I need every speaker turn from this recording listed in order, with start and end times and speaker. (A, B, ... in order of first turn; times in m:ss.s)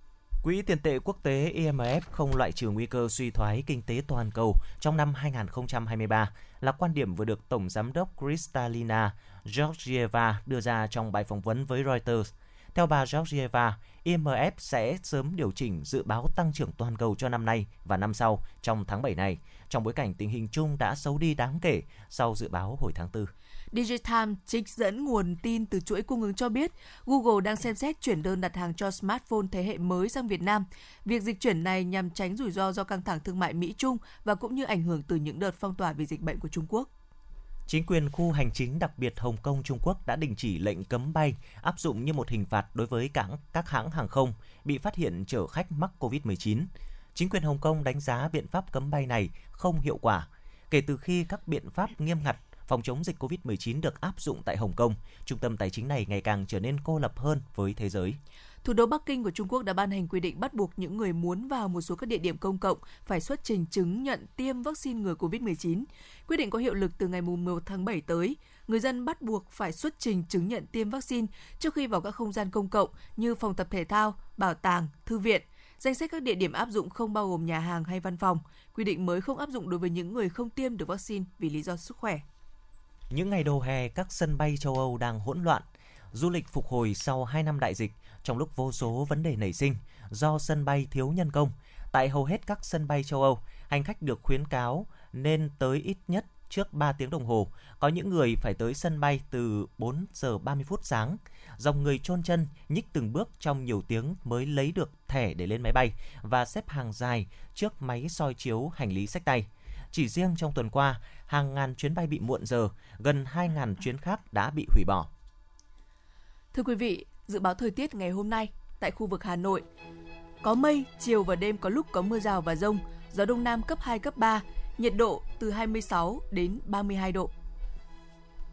0:00.4-0:23.3 A
0:23.7-0:36.9 B
0:37.7-0:58.2 A
0:58.6-1:22.2 B
1:23.1-1:55.1 A
1:56.5-1:59.6 B
2:00.4-2:07.3 B